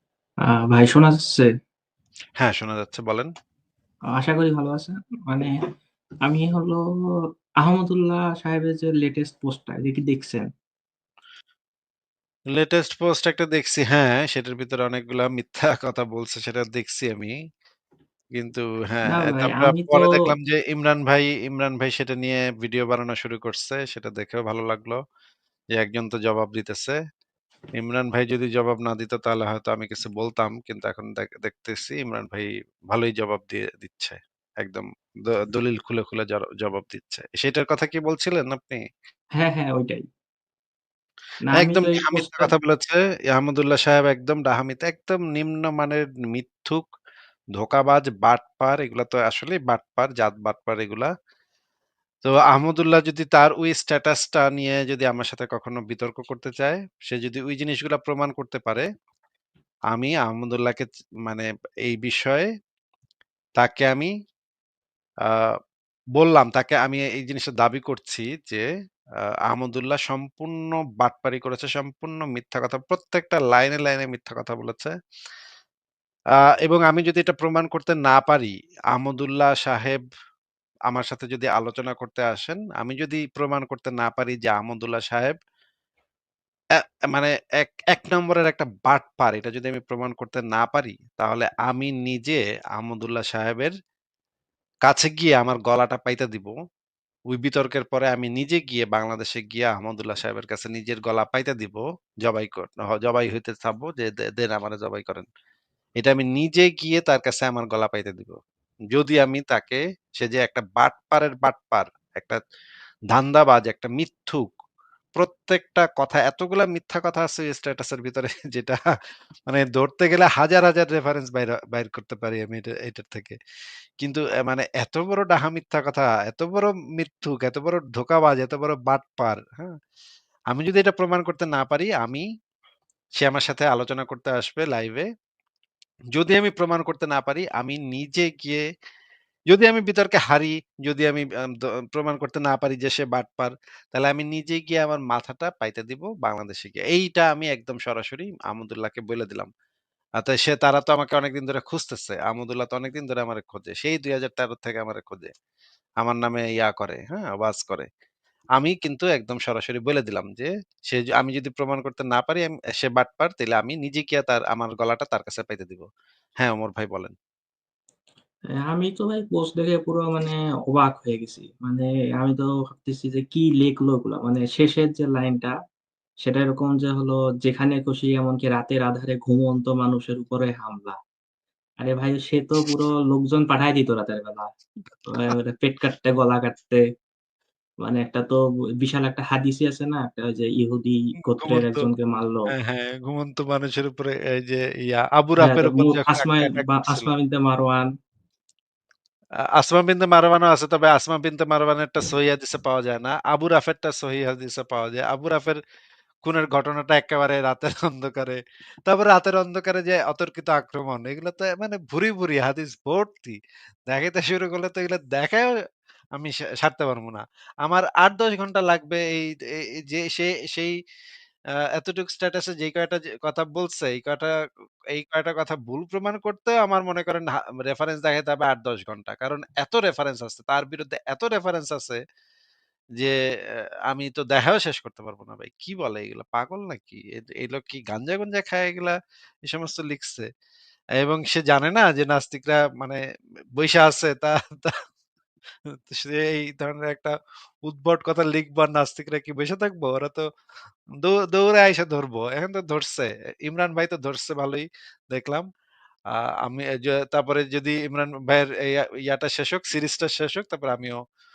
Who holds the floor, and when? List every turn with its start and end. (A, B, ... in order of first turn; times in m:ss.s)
0:00.5-0:01.5 A
0:02.4-0:03.3 B
0:04.2-0:05.5 A
0:06.2-0:06.8 A
0:07.6-0:10.4 A
0:12.5-0:17.3 B
0:18.4-0:25.0 B
0:19.1-0:20.3 A
0:25.8-0:27.0 B
0:27.8-0:38.8 B
0:39.4-0:40.0 A
0:41.4-0:42.5 A
0:41.5-0:46.8 B
0:47.6-0:51.1 B
0:52.2-0:58.8 B
0:59.9-1:02.5 B
1:03.6-1:04.1 B
1:06.2-1:08.6 B
1:09.5-1:14.9 B
1:16.6-1:20.0 B
1:20.9-1:25.4 B
1:27.1-1:33.7 B
1:34.9-1:36.5 B
1:37.3-1:45.2 B
1:46.0-1:48.4 B
1:48.9-1:52.4 B
1:53.1-1:54.5 B
1:55.2-1:58.8 B
1:59.5-2:03.4 B
2:04.0-2:09.7 B
2:10.5-2:12.2 B
2:13.2-2:15.1 B
2:16.1-2:18.6 B
2:19.5-2:21.2 B
2:21.9-2:29.5 B
2:30.2-2:35.3 B
2:36.0-2:37.9 B
2:38.6-2:45.9 B
2:46.4-2:47.1 B
2:48.7-2:55.5 A
2:56.2-3:01.0 A
3:01.8-3:04.5 A
3:05.1-3:06.8 A
3:07.8-3:12.5 A
3:11.2-3:11.8 B
3:12.5-3:17.1 B
3:15.4-3:17.9 A
3:19.6-3:25.6 B
3:26.2-3:33.4 B
3:33.9-3:35.5 B
3:36.2-3:39.3 B
3:39.8-3:40.7 B
3:41.8-3:44.3 B
3:44.9-3:52.0 B
3:53.9-3:58.9 B
3:59.5-4:00.3 B
4:01.0-4:03.0 B
4:03.6-4:04.7 B
4:05.9-4:07.1 B
4:07.6-4:10.2 B
4:11.0-4:15.4 B
4:16.4-4:21.0 B